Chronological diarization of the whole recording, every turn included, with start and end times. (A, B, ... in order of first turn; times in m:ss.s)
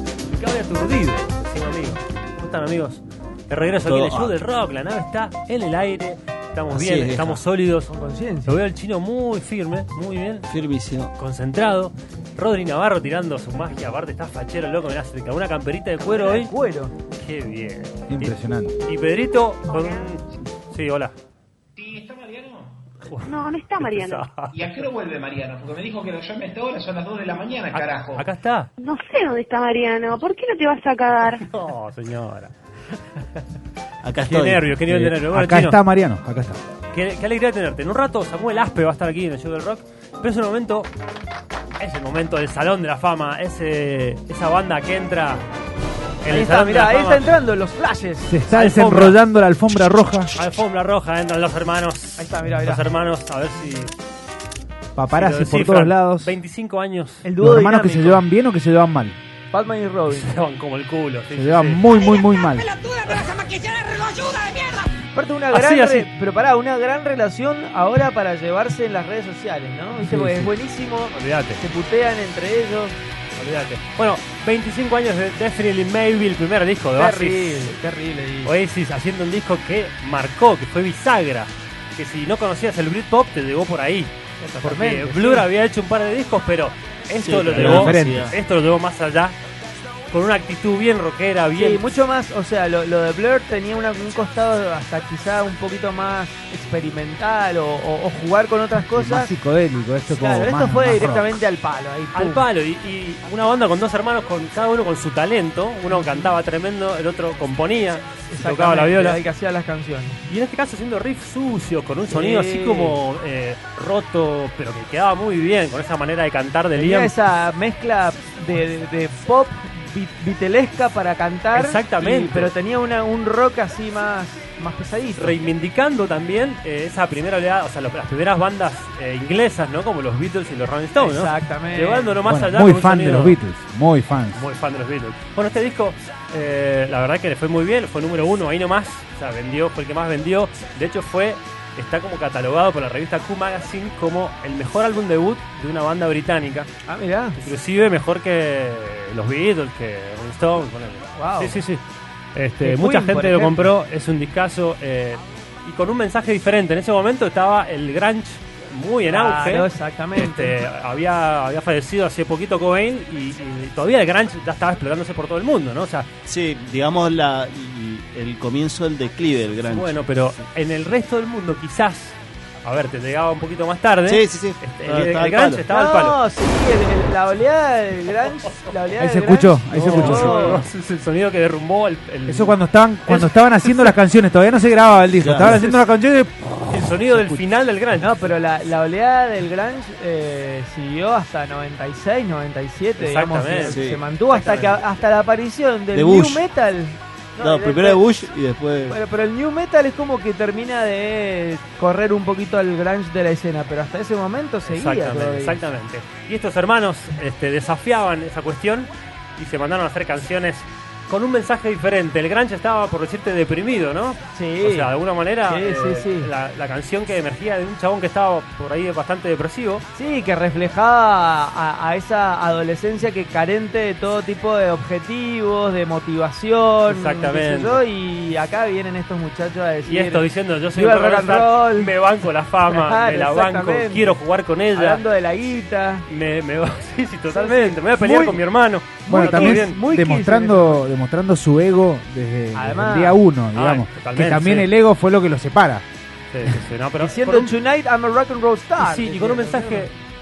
0:00.3-0:07.9 A
0:03.8-0:04.4 B
0:06.7-0:07.4 B
0:07.9-0:08.6 C
0:08.5-0:10.5 A
0:10.5-0:11.1 B
0:11.2-0:16.5 A
0:16.0-0:16.9 C
0:17.1-0:21.1 A
0:18.1-0:18.8 D
0:19.7-0:20.0 E
0:21.8-0:22.9 F
0:23.0-0:24.9 A
0:23.2-0:24.3 E
0:24.5-0:28.3 F
0:27.7-0:28.7 A
0:28.8-0:31.5 E
0:31.4-0:32.5 A
0:34.0-0:35.1 B
0:34.2-0:35.8 A
0:35.1-0:36.6 D
0:36.9-0:40.9 A
0:41.8-0:45.4 A
0:46.2-0:47.3 A
0:46.3-0:48.4 C
0:48.3-0:50.3 D
0:48.5-0:49.2 A
0:50.4-0:53.9 A
0:52.2-0:52.8 C
0:55.0-0:56.4 D
0:55.1-0:57.2 A
0:57.2-0:58.2 C
0:57.4-0:59.2 D
0:59.5-1:00.3 C
1:00.1-1:01.9 A
1:01.3-1:02.8 D
1:03.5-1:04.8 E
1:05.0-1:13.0 C
1:05.5-1:06.1 A
1:10.0-1:10.5 D
1:11.1-1:11.6 A
1:13.4-1:17.7 A
1:17.0-1:18.5 C
1:18.4-1:24.1 A
1:24.4-1:25.5 C
1:24.6-1:29.4 A
1:27.2-1:28.4 B
1:27.6-1:28.4 D
1:30.1-1:31.9 A
1:31.6-1:39.4 C
1:38.9-1:41.3 D
1:40.1-1:42.4 C
1:42.1-1:49.2 A
1:46.0-1:46.2 C
1:48.3-1:50.2 C
1:50.3-1:57.1 A
1:52.1-1:53.0 C
1:56.8-2:05.4 C
2:01.5-2:02.5 A
2:05.2-2:13.4 A
2:11.0-2:12.2 C
2:12.2-2:14.4 D
2:14.3-2:26.7 A
2:26.9-2:27.4 C
2:27.4-2:31.8 A
2:31.2-2:31.6 C
2:32.4-2:46.1 A
2:32.6-2:33.7 C
2:39.1-2:40.6 C
2:46.3-2:50.0 B
2:49.7-2:56.2 A
2:54.1-2:55.6 B
2:55.7-3:00.6 C
2:59.0-3:00.4 D
2:59.7-3:04.0 A
2:59.8-3:00.2 B
3:02.3-3:07.4 D
3:05.2-3:05.8 B
3:06.7-3:08.2 A
3:08.0-3:18.1 C
3:13.0-3:15.0 A
3:13.6-3:14.0 B
3:15.9-3:16.4 B
3:17.4-3:19.0 B
3:18.9-3:25.6 C
3:24.7-3:39.8 A
3:34.3-3:34.9 C
3:35.4-3:36.3 C
3:40.0-3:51.9 C
3:46.8-3:47.8 A
3:49.8-3:55.0 A
3:52.7-3:54.2 C
3:54.7-3:56.0 C
3:56.1-3:59.8 A
3:57.3-3:58.4 C
3:59.1-4:00.9 C
3:59.1-4:05.8 D
4:02.5-4:03.2 C
4:03.5-4:04.7 A
4:06.3-4:07.5 A
4:07.0-4:09.9 C
4:08.8-4:10.0 A